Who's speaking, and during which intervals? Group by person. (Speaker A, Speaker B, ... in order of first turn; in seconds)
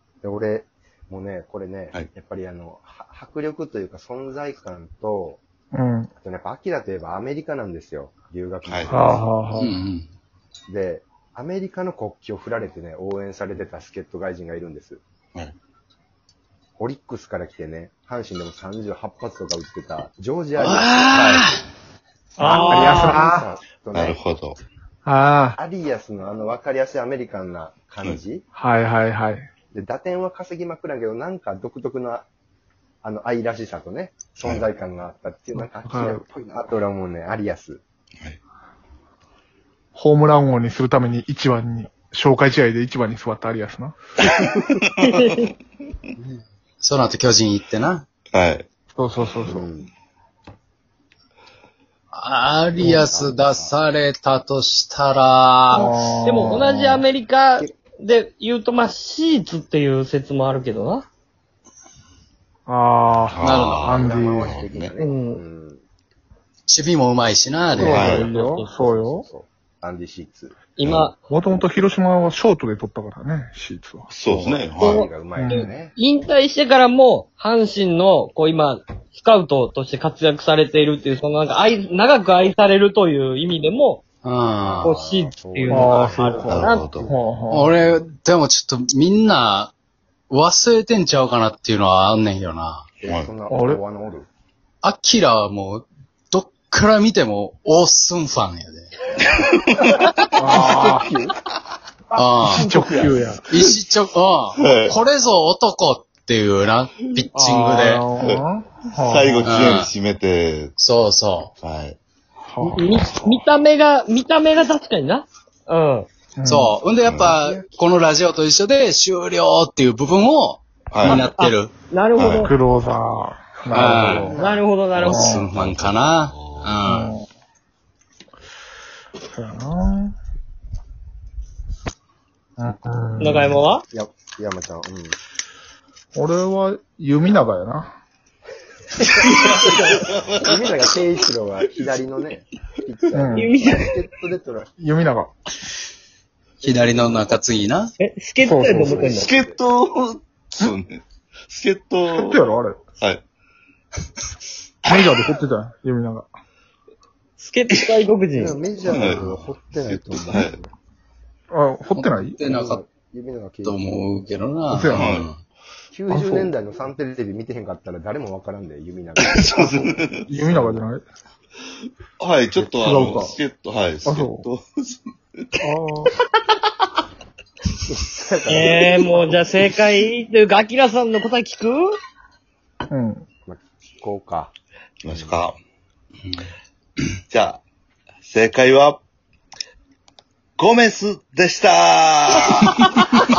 Speaker A: 0.2-5.4, 6.2-9.2, 10.7-15.0, 16.8-21.4, 22.4-24.2, 25.6-28.5, 29.7-32.2, 33.0-37.8, 49.5-49.9, 52.8-53.7, 63.8-65.8, 68.7-70.6, 74.8-76.0, 84.6-87.2, 93.0-94.3, 100.4-101.3, 102.4-103.6, 117.4-117.8, 123.9-124.6, 133.9-135.2, 139.0-144.7, 146.6-147.3, 148.7-149.6, 158.3-160.7, 162.4-163.8, 165.9-169.9, 170.4-170.8, 177.8-178.9, 183.4-184.5, 185.1-185.4
Speaker B: 5.7-6.1, 8.9-9.8, 22.4-23.5, 25.0-25.6, 28.6-29.5, 35.6-36.2, 39.9-44.0, 48.9-49.6, 55.7-57.0, 62.7-64.7, 67.7-69.3, 71.3-74.1, 75.3-75.7, 85.7-86.5, 87.1-87.8, 93.5-93.8, 100.3-101.1, 102.4-103.5, 107.3-109.5, 112.4-113.4, 116.4-116.8, 122.4-124.3, 125.0-125.5, 126.8-127.2, 129.3-130.1, 132.6-133.6, 136.2-138.0, 143.1-143.5, 144.8-145.3, 148.4-149.0, 152.1-152.8, 154.8-156.3, 161.5-162.4, 164.7-165.2, 166.1-166.5, 169.7-171.0, 172.6-173.4, 174.0-174.5, 175.6-176.1, 182.9-183.2
Speaker C: 8.6-8.9, 21.1-21.4, 23.9-24.6, 48.3-48.6, 63.3-64.9, 67.8-68.3, 70.8-71.1, 74.1-75.0, 86.5-87.1, 93.0-93.3, 99.4-100.0, 104.6-105.0, 108.2-108.4, 109.0-110.8, 111.6-112.0, 117.0-117.4, 120.9-121.2, 122.2-122.5, 125.5-126.8, 139.4-140.8, 149.0-153.2, 158.8-160.6, 164.9-165.3, 169.2-170.3, 172.2-175.5, 185.0-185.6, 187.3-187.6, 188.2-189.0, 190.6-192.8
Speaker D: 9.6-10.1, 20.6-21.6, 46.2-48.0, 52.1-55.8, 63.4-63.9, 66.7-68.0, 74.3-74.6, 84.2-85.0, 87.5-89.7, 90.3-92.8, 94.8-98.9, 102.1-102.7, 103.5-108.0, 109.4-109.9, 110.8-111.5, 116.5-121.7, 123.7-124.4, 124.9-127.1, 146.6-147.9, 161.9-162.8, 163.6-165.4
Speaker E: 22.4-22.9, 45.0-45.5, 55.8-61.0, 65.0-65.4, 67.8-69.0, 70.8-71.2, 74.8-84.0, 84.8-86.8, 112.7-116.1, 121.0-122.5, 124.3-125.4, 133.2-133.8, 139.5-139.9, 143.3-143.9, 148.0-149.3, 157.4-158.6, 178.5-181.9